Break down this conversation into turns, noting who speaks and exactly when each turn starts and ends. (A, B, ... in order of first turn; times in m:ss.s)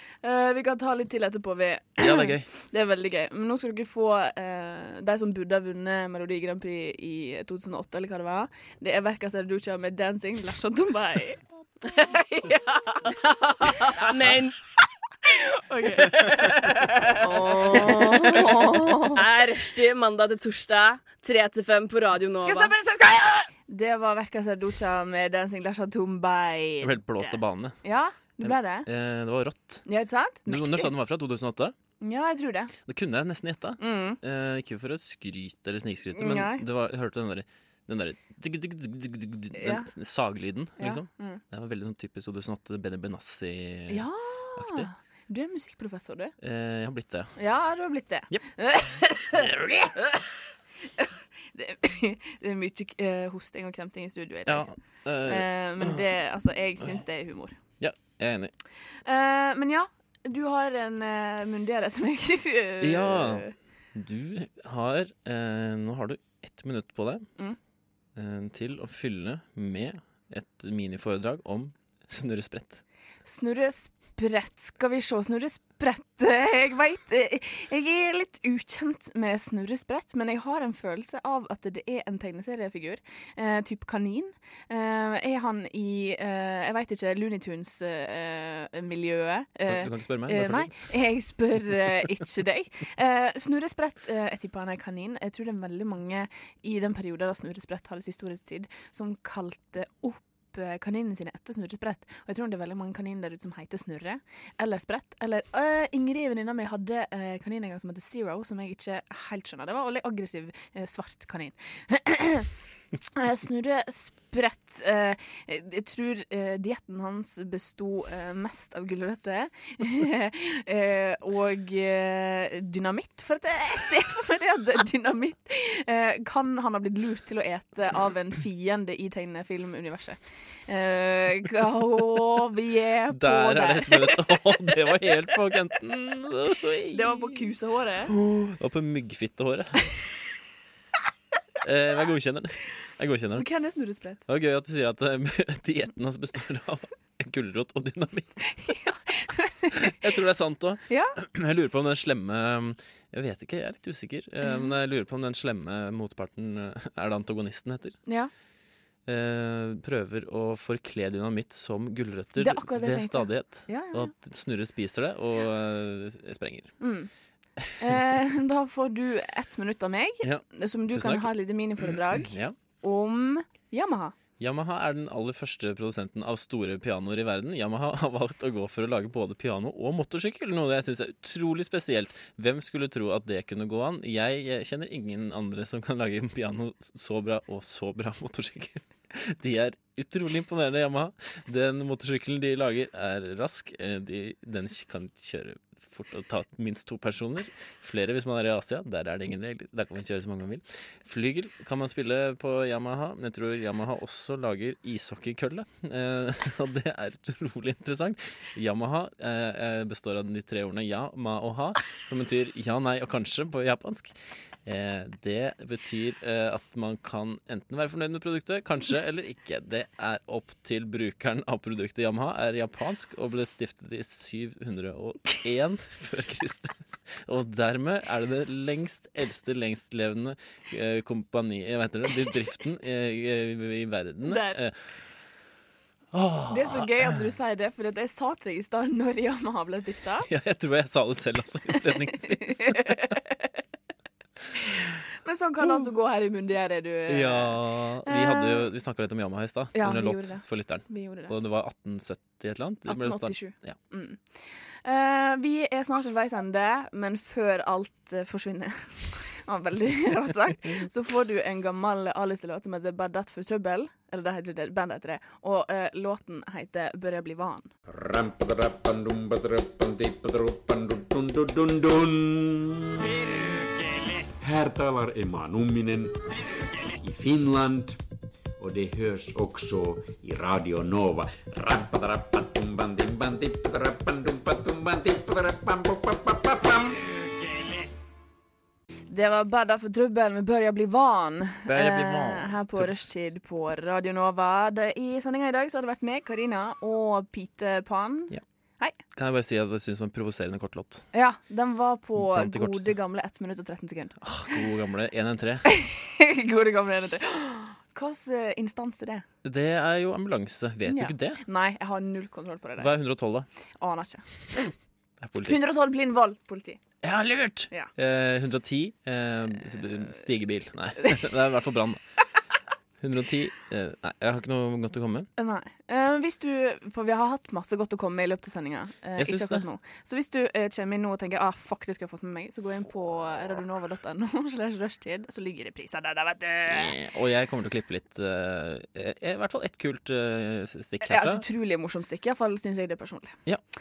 0:00.2-0:13.0 A
0:02.0-0:02.5 B
0:13.2-0:14.5 C
0:15.3-0:16.4 A
0:16.9-0:19.2 A
0:17.1-0:22.7 C
0:22.4-0:28.9 A
0:26.8-0:27.8 B
0:28.4-0:29.8 B
0:29.8-0:30.9 A
0:30.5-0:31.7 B
0:32.0-0:32.7 A
0:32.9-0:44.9 B
0:33.8-0:34.2 A
0:36.2-0:36.6 A
0:39.6-0:39.9 A
0:40.8-0:41.4 A
0:43.9-0:46.3 A
0:46.4-0:47.3 B
0:47.4-0:49.5 A
0:49.3-0:50.0 B
0:51.0-0:54.7 A
0:54.4-0:56.0 B
0:55.2-0:57.6 A
0:57.8-0:58.5 B
0:59.1-1:03.5 A
1:02.8-1:07.3 B
1:08.2-1:12.8 B
1:13.2-1:52.5 A
1:29.7-1:30.8 B
1:53.1-2:14.2 A
2:13.1-2:17.4 B
2:16.9-2:18.1 A
2:18.1-2:20.0 B
2:21.6-2:23.5 B
2:23.4-2:24.2 A
2:24.3-2:28.4 B
2:28.4-2:29.9 A
2:29.7-2:38.0 B
2:30.9-2:31.2 A
2:34.4-2:34.7 A
2:38.1-2:38.3 A
2:39.1-2:46.7 B
2:42.4-2:44.1 A
2:46.8-2:47.1 A
2:47.8-2:54.1 A
2:50.2-2:51.3 B
2:52.2-2:52.6 B
2:54.4-3:54.7 B
3:54.2-3:54.6 A
3:56.1-3:57.2 B
3:56.5-4:00.3 A
4:00.2-4:03.2 B
4:01.7-4:03.5 A
4:05.2-4:08.7 A
4:05.6-4:05.9 B
4:07.1-4:13.8 B
4:09.7-4:11.3 A
4:12.9-4:27.7 A
4:27.9-4:33.1 D
4:34.4-4:36.1 D
4:37.0-4:38.0 D
4:38.6-4:47.0 D
4:49.1-4:59.0 A
4:51.7-4:53.2 B
4:59.1-5:01.0 B
5:01.1-5:04.6 A
5:02.2-5:02.9 B
5:04.2-5:05.7 B
5:05.6-5:09.2 A
5:09.4-5:11.4 B
5:10.9-5:12.9 A
5:12.8-5:13.5 B
5:13.8-5:14.7 A
5:15.2-5:15.6 B
5:15.4-5:16.8 A
5:17.0-5:22.0 B
5:23.0-5:25.3 B
5:25.4-5:36.9 A
5:29.2-5:29.7 B
5:36.7-5:41.4 B
5:41.0-5:43.4 A